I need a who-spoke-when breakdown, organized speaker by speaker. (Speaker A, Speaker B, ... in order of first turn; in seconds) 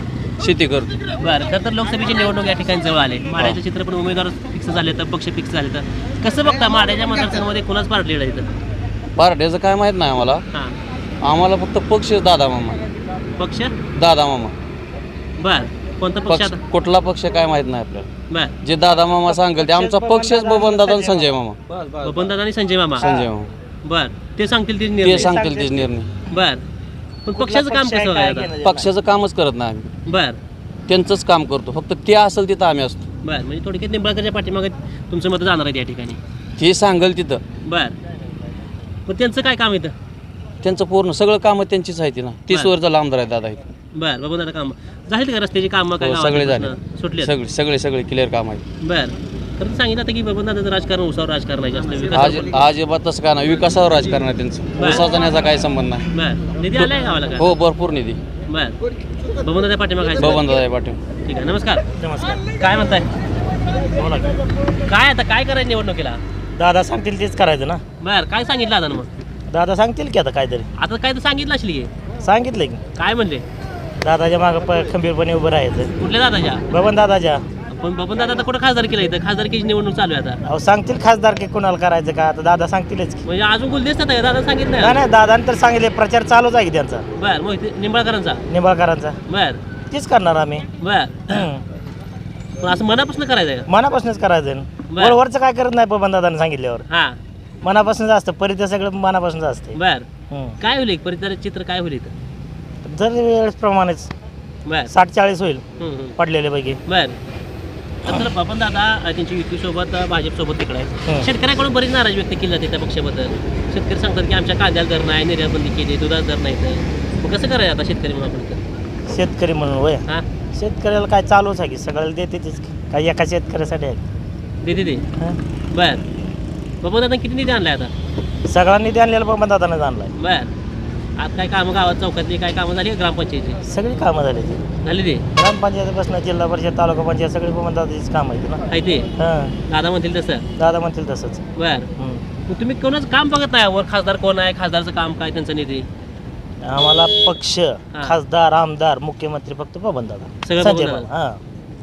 Speaker A: 0.4-0.9, 9.2-10.4, 11.2-12.8, 13.9-14.5, 16.3-18.1, 18.6-21.6, 23.0-23.5, 25.0-26.1, 28.6-29.9, 30.9-33.0, 36.6-37.4, 40.6-43.6, 46.0-48.6, 52.1-56.0, 56.7-58.2, 60.2-61.0
Speaker B: 1.2-8.5, 13.4-13.7, 15.4-16.6, 22.0-23.1, 23.8-25.4, 26.3-26.6, 27.2-28.5, 30.1-30.4, 33.2-36.2, 37.7-37.9, 39.1-39.9, 44.0-47.3, 48.8-52.6, 54.8-55.0, 56.1-57.5, 58.5-58.7, 59.4-60.4, 61.2-61.8, 62.5-63.1, 64.9-66.2, 68.0-69.1, 70.8-71.9, 73.0-73.4, 76.0-76.6, 77.7-80.4, 83.2-85.0, 87.2-88.4, 89.2-89.6, 90.8-91.4, 92.6-93.7, 94.9-95.2, 96.9-97.2, 99.7-100.1, 100.6-102.1, 104.7-104.9, 105.8-106.2, 106.8-107.1, 108.0-118.6, 124.6-125.0, 125.7-126.0, 126.8-127.9, 130.1-130.5, 131.2-133.6, 134.8-135.2, 138.7-139.1, 139.7-140.4, 141.6-141.9, 142.5-145.8, 150.4-151.1
Speaker C: 19.4-22.1, 25.1-25.9, 27.3-28.9, 62.0-62.4, 63.9-64.4, 66.6-67.8, 69.5-70.7, 72.2-72.8, 74.0-75.9, 76.7-77.4, 80.5-83.2, 84.8-87.0, 88.5-89.2, 89.9-90.7, 91.3-91.6, 93.7-96.8, 97.6-99.8, 100.3-100.5, 102.8-104.1, 104.9-105.6, 106.2-106.8, 119.1-120.0, 120.5-124.0, 128.5-130.1, 133.7-134.7, 135.3-138.6, 139.2-139.5, 140.6-141.4, 142.0-142.2, 146.6-151.4